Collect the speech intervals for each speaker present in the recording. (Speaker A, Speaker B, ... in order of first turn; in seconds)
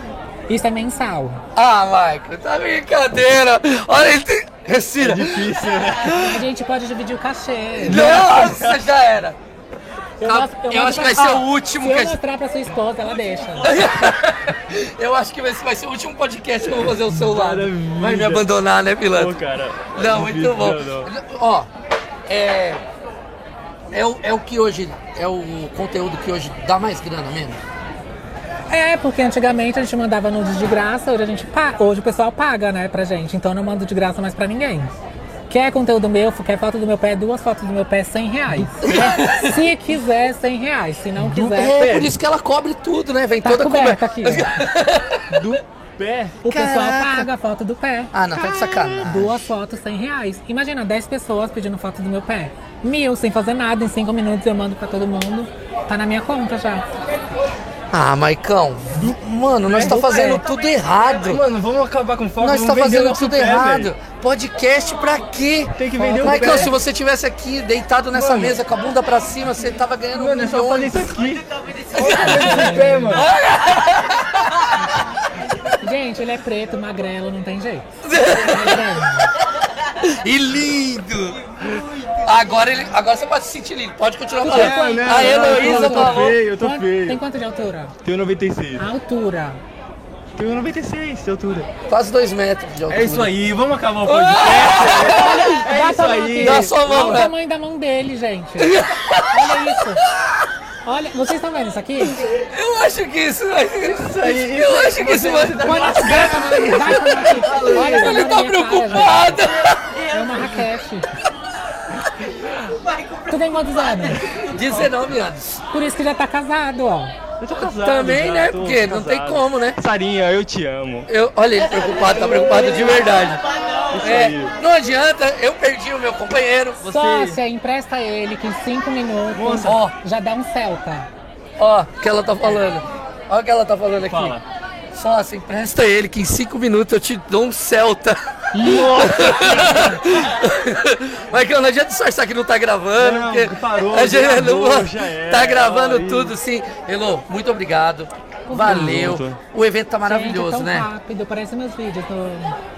Speaker A: 0.5-1.4, 6.2-8.0, 10.2-13.8, 28.7-34.9, 35.5-41.8, 43.4-44.6, 46.4-56.8, 72.5-73.2, 75.8-79.3, 84.4-87.9, 88.8-89.6, 95.1-98.7, 99.3-100.0, 100.8-102.2, 105.7-109.4, 110.1-111.0, 113.3-114.2, 115.7-117.1, 126.8-131.1, 148.5-149.1, 150.0-152.5
Speaker B: 1.5-5.4, 7.8-9.4, 10.2-12.2, 13.6-19.3, 19.9-21.7, 22.3-22.8, 23.9-27.6, 38.8-39.5, 41.5-45.2, 46.5-47.3, 48.1-49.4, 57.9-61.4, 62.4-71.1, 71.9-74.4, 78.0-78.8, 80.0-81.3, 82.2-86.4, 91.9-93.3, 94.1-95.6, 96.4-97.3, 98.6-99.5, 102.4-109.9, 114.5-115.6, 117.7-119.8, 121.1-123.4, 124.0-126.8, 129.6-129.9, 131.6-134.4, 134.9-150.9
Speaker C: 5.0-6.4, 7.8-8.8, 17.0-18.5, 19.1-21.1, 41.2-42.1, 45.3-46.4, 59.7-60.4, 61.3-63.9, 65.8-66.7, 68.1-68.6, 70.1-73.2, 84.5-87.2, 88.0-88.8, 90.3-91.7, 92.9-97.2, 103.8-106.7, 107.5-108.1, 117.4-121.1, 123.9-124.5, 126.8-127.4, 129.3-129.8, 134.1-134.4, 138.5-140.1, 143.0-146.3, 148.6-149.4